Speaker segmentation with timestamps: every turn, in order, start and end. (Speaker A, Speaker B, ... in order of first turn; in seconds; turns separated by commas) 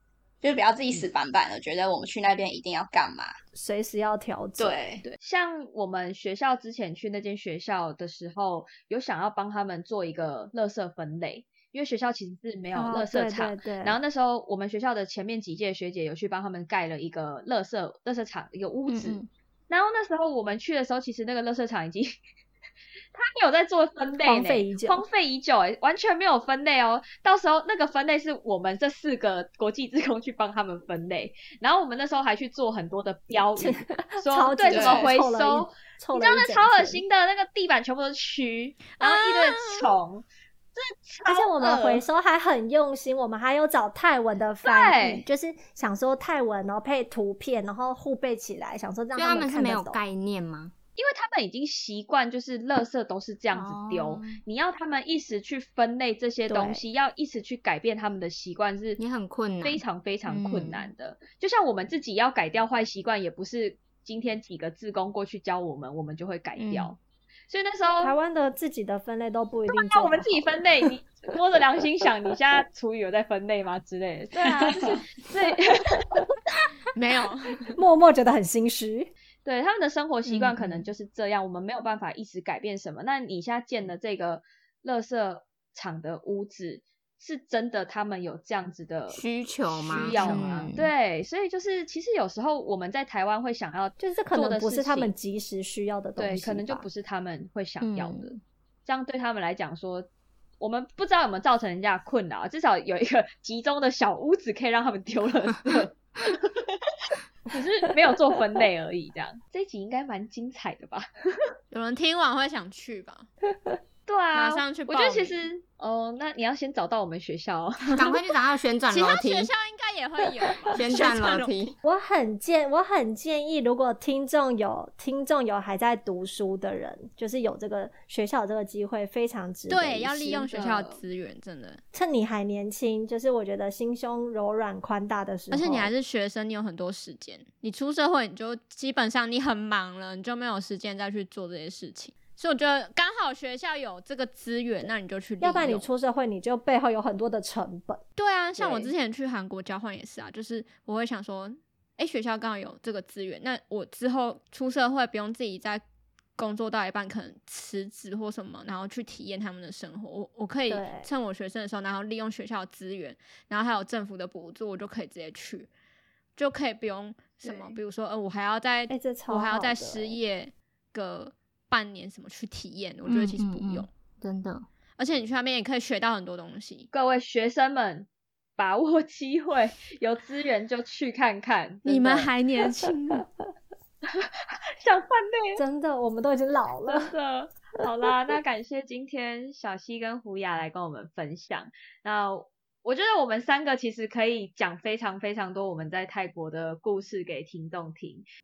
Speaker A: 0.4-3.3, Speaker B: 3.5-4.8, Speaker A: 4.6-5.0, Speaker C: 5.0-19.2, Speaker B: 12.7-14.0, Speaker D: 18.9-19.3, Speaker C: 19.7-22.1, Speaker C: 23.1-41.7, Speaker B: 24.2-25.0, Speaker B: 33.6-37.0, Speaker A: 34.7-35.1, Speaker E: 39.0-40.0, Speaker B: 41.2-50.0, Speaker A: 41.6-42.0, Speaker C: 44.6-45.2, Speaker D: 49.1-50.7, Speaker C: 51.0-59.0, Speaker D: 53.5-54.4, Speaker B: 56.5-56.8, Speaker D: 59.0-60.9, Speaker C: 59.6-68.1, Speaker D: 66.6-66.9, Speaker B: 68.0-70.6, Speaker C: 69.7-76.0, Speaker E: 76.9-77.7, Speaker B: 77.7-79.1, Speaker C: 79.4-89.2, Speaker D: 80.3-80.9, Speaker D: 89.1-90.9, Speaker C: 89.7-95.1, Speaker E: 89.9-90.7, Speaker B: 94.0-96.9, Speaker C: 96.2-98.3, Speaker D: 97.8-98.4, Speaker C: 98.8-100.1, Speaker C: 100.6-106.7, Speaker C: 107.5-111.0, Speaker E: 111.7-113.3, Speaker C: 114.1-118.2, Speaker E: 114.3-115.4, Speaker D: 117.9-119.5, Speaker E: 118.9-121.7, Speaker D: 120.7-121.7, Speaker B: 121.8-130.5, Speaker E: 129.7-131.8, Speaker C: 130.3-131.0, Speaker B: 131.9-135.9, Speaker E: 135.5-145.9, Speaker B: 145.4-148.0, Speaker E: 148.2-155.8, Speaker C: 148.6-148.9, Speaker E: 156.3-165.7, Speaker B: 160.7-161.1, Speaker E: 166.3-173.9, Speaker B: 167.4-167.7, Speaker B: 168.9-170.2, Speaker D: 173.1-174.7, Speaker E: 175.0-176.9, Speaker C: 176.9-182.3, Speaker E: 181.8-183.3, Speaker C: 184.1-185.6, Speaker B: 185.6-187.1, Speaker C: 186.9-198.2